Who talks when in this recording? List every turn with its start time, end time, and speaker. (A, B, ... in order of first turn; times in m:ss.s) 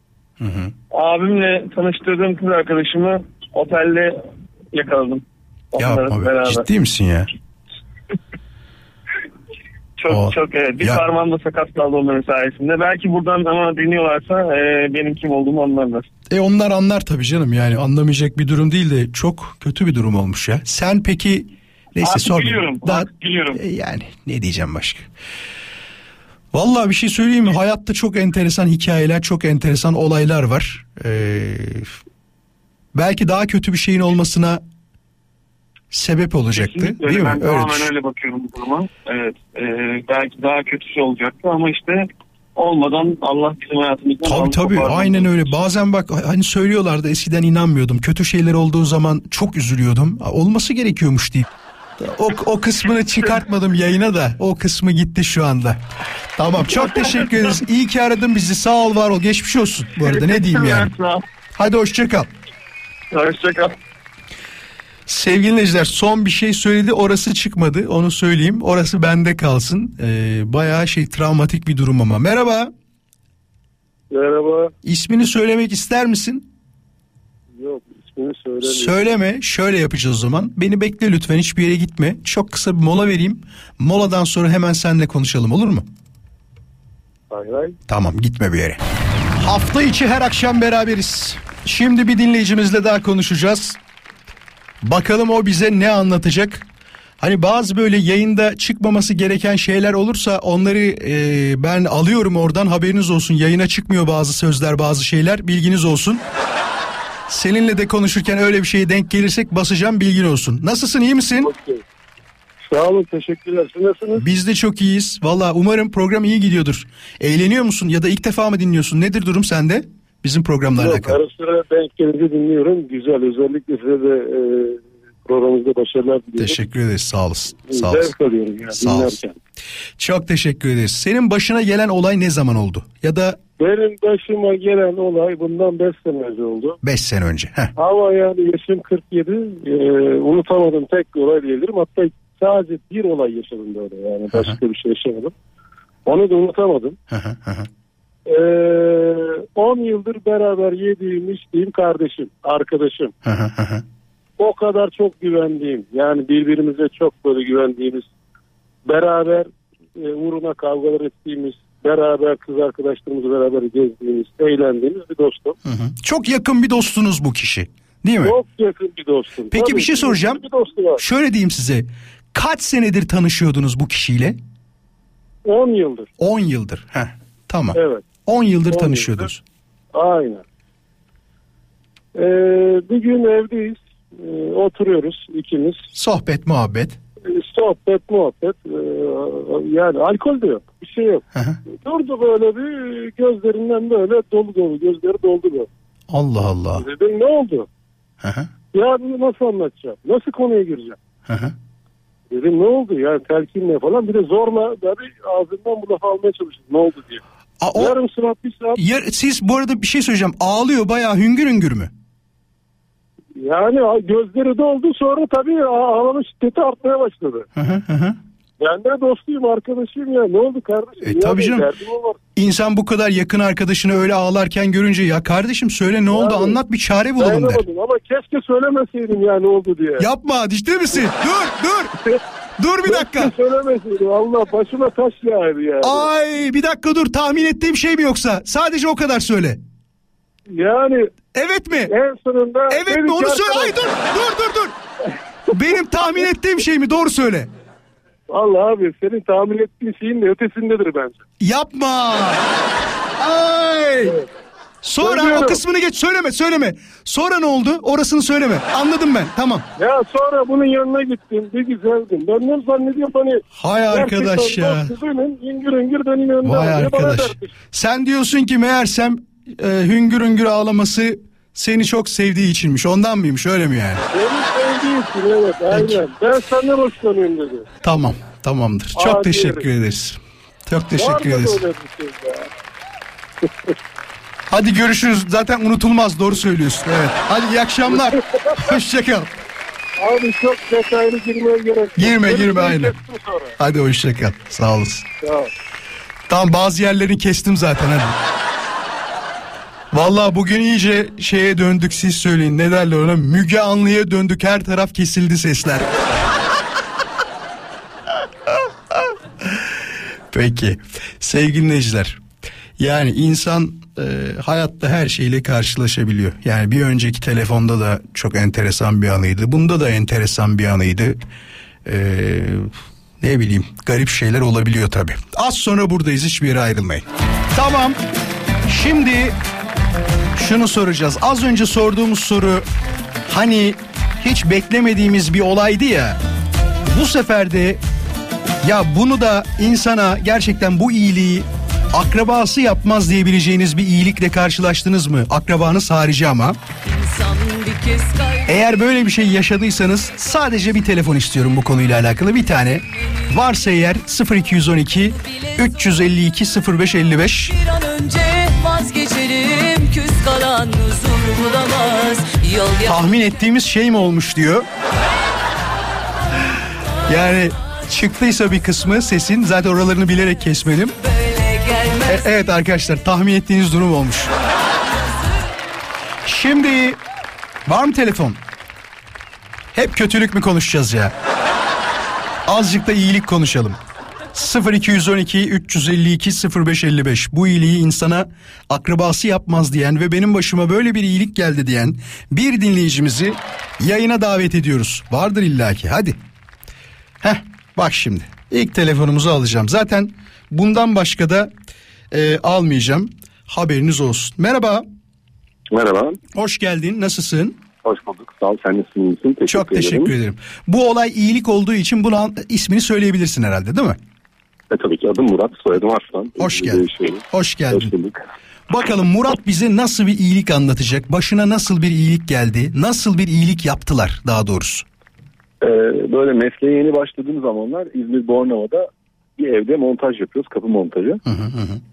0:00.4-0:00.7 A
0:00.9-0:06.6 B
0:05.8-0:07.3 A
0:10.0-0:16.1 B
0:10.1-0:11.0 A
0:16.3-0:25.1 A
0:22.0-0:23.6 B
0:26.5-0:31.9 A
0:32.9-0:34.6 A
0:35.9-0:37.9 A
0:36.5-0:45.5 B
0:44.2-0:51.5 A
0:52.0-0:55.8 A
0:56.4-1:00.9 A
0:56.8-0:57.5 B
1:00.0-1:01.2 B
1:01.6-1:02.3 A
1:03.1-1:03.8 B
1:05.1-1:12.7 A
1:14.1-1:14.7 C
1:14.8-1:16.5 A
1:17.6-1:19.0 C
1:18.6-1:25.8 A
1:27.3-1:27.8 C
1:27.9-1:28.8 A
1:29.4-1:33.8 A
1:34.8-1:36.6 A
1:37.2-1:46.2 A
1:47.3-1:51.5 A
1:51.4-1:51.8 C
1:52.7-1:54.2 C
1:54.2-2:01.2 A
2:00.8-2:06.6 C
2:06.4-2:08.1 A
2:07.7-2:09.4 C
2:08.7-2:09.2 A
2:10.0-2:13.4 A
2:13.6-2:16.8 C
2:16.8-2:17.7 A
2:17.8-2:25.3 C
2:26.0-2:27.0 C
2:27.1-2:27.7 A
2:28.2-2:33.1 C
2:33.2-2:33.8 A
2:34.4-2:38.1 C
2:38.8-2:45.6 C
2:45.6-2:48.4 A
2:48.2-2:51.0 C
2:49.5-2:50.4 A
2:51.0-2:54.4 A
2:55.4-2:56.1 C
2:56.2-2:59.4 A
2:57.7-2:59.2 C
2:59.9-3:00.4 C
3:02.1-3:05.8 C
3:05.9-3:07.0 A
3:07.3-3:15.7 C
3:11.3-3:11.6 A
3:16.1-3:16.9 A
3:16.8-3:17.7 C
3:18.2-3:18.5 A
3:18.7-3:21.0 C
3:21.3-3:21.5 A
3:22.3-3:27.2 C
3:27.6-3:28.0 A
3:27.7-3:28.8 C
3:28.8-3:31.9 A
3:33.4-3:37.5 C
3:37.6-3:38.2 A
3:38.6-3:42.2 C
3:41.0-3:41.7 A
3:42.3-3:47.6 A
3:46.1-3:46.6 C
3:47.2-3:50.1 C
3:50.0-3:52.0 A
3:52.6-3:53.3 A
3:52.9-3:56.1 C
3:55.8-3:59.6 A
4:00.5-4:01.1 C
4:01.3-4:01.9 A
4:01.9-4:03.8 C
4:02.7-4:04.8 A
4:05.5-4:07.5 A
4:05.5-4:06.2 C
4:08.3-4:11.2 C
4:11.4-4:12.4 A
4:13.2-4:14.2 A
4:14.8-4:19.6 A
4:15.0-4:15.6 C
4:19.8-4:27.5 C
4:23.6-4:24.9 A
4:26.4-4:34.0 A
4:34.1-4:37.7 C
4:35.7-4:36.0 A
4:37.8-4:41.6 A
4:39.0-4:39.7 C
4:41.0-4:42.5 C
4:43.4-4:43.7 C
4:44.5-4:49.3 A
4:47.9-4:48.8 C
4:50.0-4:53.5 C
4:52.0-4:53.0 A
4:53.6-4:55.1 A
4:55.2-4:55.5 C
4:56.3-4:58.2 A
4:59.9-5:05.9 A
5:09.0-5:09.6 A
5:10.3-5:12.2 A
5:12.8-5:21.2 A
5:21.8-5:27.0 A
5:27.5-5:28.0 A
5:28.7-5:29.3 A
5:30.4-5:32.6 A
5:33.3-5:36.2 A
5:36.9-5:37.8 A
5:38.6-5:46.6 A
5:46.8-5:48.5 D
5:48.4-5:57.5 A
5:55.3-5:55.6 D
5:57.5-6:03.3 D
6:02.8-6:04.7 A
6:07.1-6:10.9 A
6:11.0-6:12.2 D
6:12.0-6:14.3 A
6:14.8-6:15.5 D
6:16.2-6:17.0 A
6:17.6-6:18.4 A
6:19.7-6:21.1 A
6:22.4-6:23.8 A
6:24.3-6:36.2 A
6:37.2-6:41.5 A
6:42.1-6:44.8 A
6:45.7-6:46.2 E
6:46.3-6:47.6 A
6:47.8-6:50.1 E
6:49.5-6:54.0 A
6:54.7-6:58.2 E
6:56.4-6:57.9 A
6:58.7-7:04.8 A
7:05.6-7:11.2 E
7:11.2-7:11.8 A